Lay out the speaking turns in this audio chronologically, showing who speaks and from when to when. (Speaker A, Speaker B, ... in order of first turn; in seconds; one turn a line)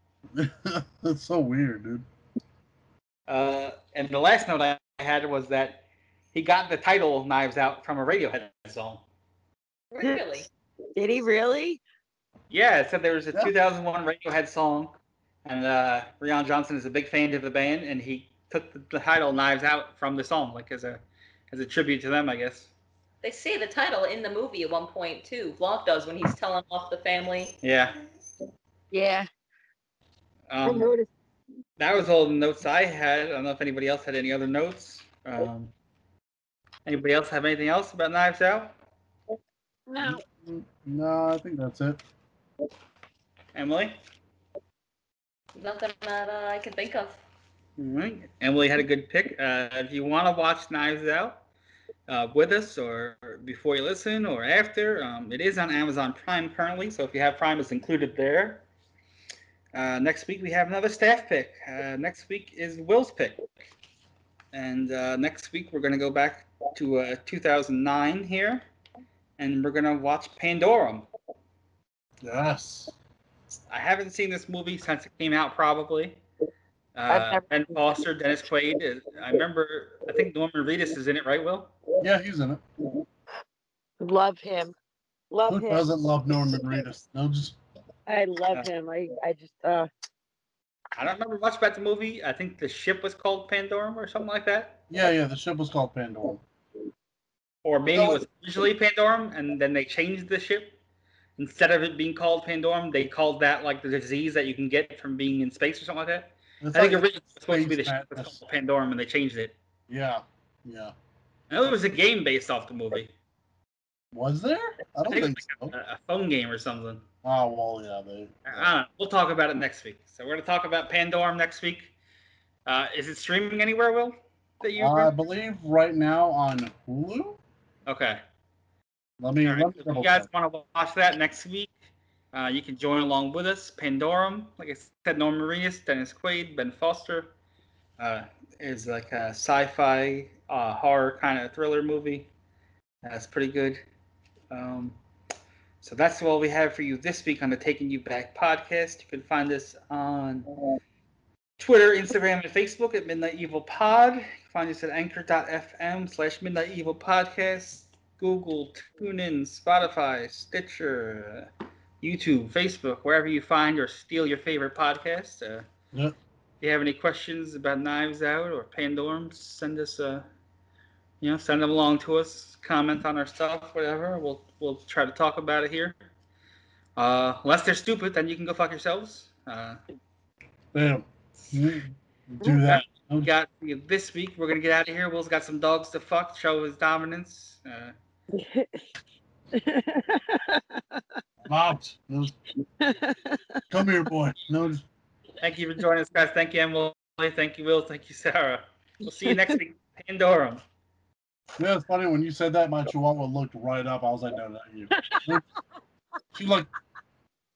Speaker A: 0.3-2.0
Speaker B: 3.3-9.0
Speaker C: 9.9-10.5
Speaker D: 10.9-11.8
Speaker B: 12.5-14.9
Speaker B: 15.4-22.7
Speaker C: 23.2-27.5
Speaker B: 27.6-27.9
Speaker D: 28.9-29.3
Speaker B: 30.5-30.9
Speaker D: 30.6-31.1
Speaker B: 31.8-35.7
Speaker B: 36.8-38.7
Speaker D: 39.9-40.2
Speaker A: 40.0-42.0
Speaker B: 43.5-44.0
Speaker C: 45.5-47.2
Speaker B: 47.8-51.4
Speaker B: 52.1-58.6
Speaker B: 59.7-63.5
Speaker B: 64.5-68.6
Speaker B: 69.4-71.1
Speaker A: 72.2-72.9
Speaker B: 73.7-76.2
Speaker B: 77.0-81.7
Speaker D: 77.1-77.5
Speaker A: 82.0-82.6
Speaker D: 84.0-84.7
Speaker D: 85.3-85.9
Speaker A: 85.5-87.6
Speaker D: 88.1-89.9
Speaker B: 91.0-94.8
Speaker A: 94.9-96.4
Speaker B: 97.6-100.8
Speaker A: 97.9-98.2
Speaker B: 101.4-109.5
Speaker A: 106.6-108.4
Speaker A: 109.9-110.9
Speaker B: 111.5-113.1
Speaker A: 114.1-115.7
Speaker B: 115.1-117.0
Speaker A: 117.2-118.7
Speaker B: 118.5-121.9
Speaker B: 122.7-125.1
Speaker A: 124.8-127.4
Speaker B: 127.9-128.2
Speaker A: 129.2-130.3
Speaker B: 129.4-131.8
Speaker B: 132.3-137.3
Speaker B: 138.0-142.3
Speaker B: 143.0-143.8
Speaker B: 144.5-145.0
Speaker B: 145.8-150.5
Speaker B: 151.6-161.5
Speaker B: 162.0-165.7
Speaker B: 166.6-170.3
Speaker B: 171.2-176.0
Speaker B: 177.0-179.8
Speaker A: 180.7-183.3
Speaker B: 182.6-187.9
Speaker D: 188.3-188.8
Speaker D: 189.5-191.0
Speaker A: 191.4-192.3
Speaker D: 192.8-193.6
Speaker A: 193.7-194.8
Speaker B: 195.4-200.6
Speaker A: 201.6-205.4
Speaker A: 206.3-206.7